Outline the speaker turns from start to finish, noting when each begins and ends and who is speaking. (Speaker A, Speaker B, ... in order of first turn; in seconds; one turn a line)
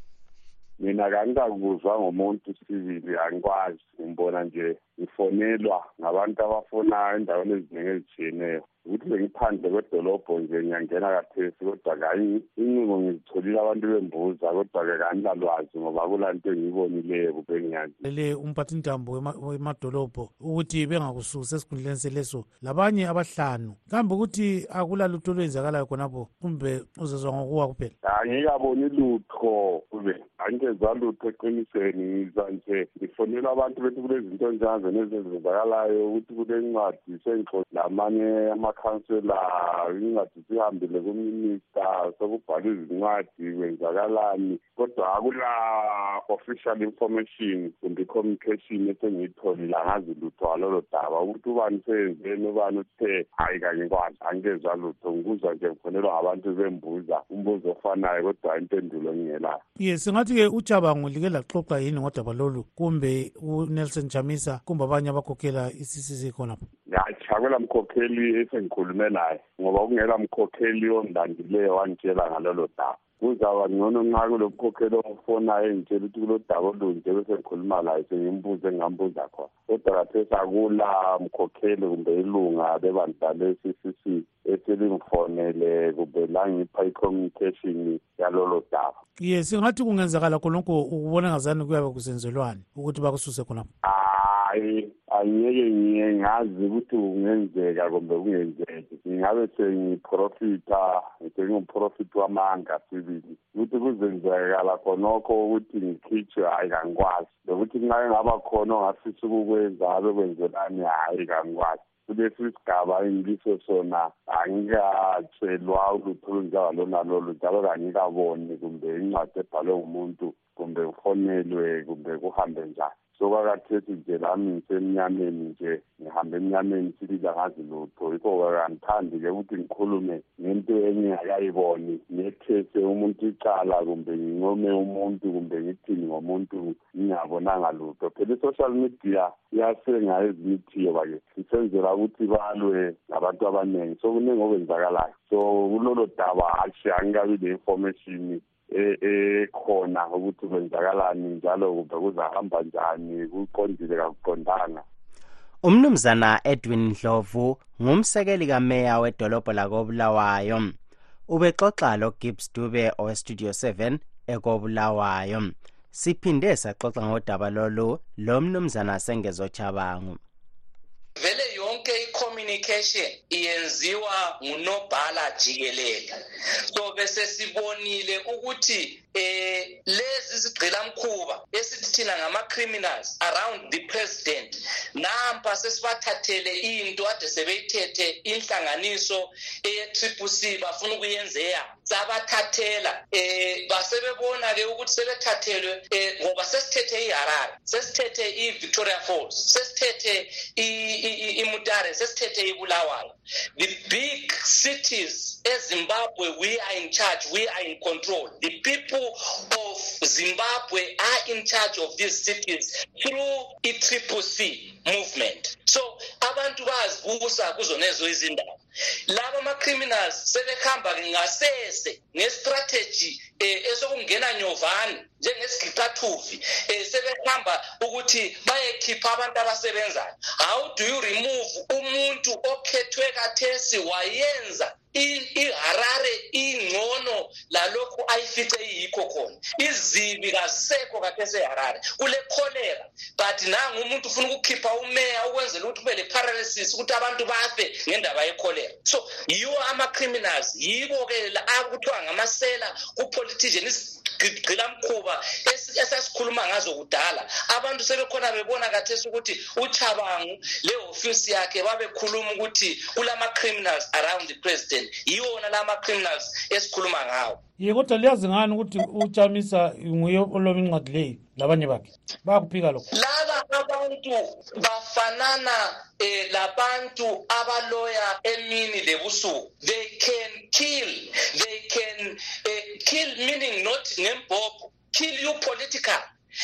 Speaker A: 0.8-18.0
Speaker B: 18.1-27.9
Speaker A: 28.0-59.6
Speaker B: 59.8-66.6
Speaker A: 66.9-89.0
Speaker B: 89.2-93.7
Speaker A: 93.8-154.8
Speaker C: 155.6-160.7
Speaker C: 161.3-170.2
Speaker D: 171.2-218.5
Speaker D: 219.1-267.4
Speaker B: 267.6-272.8
Speaker D: 272.9-286.1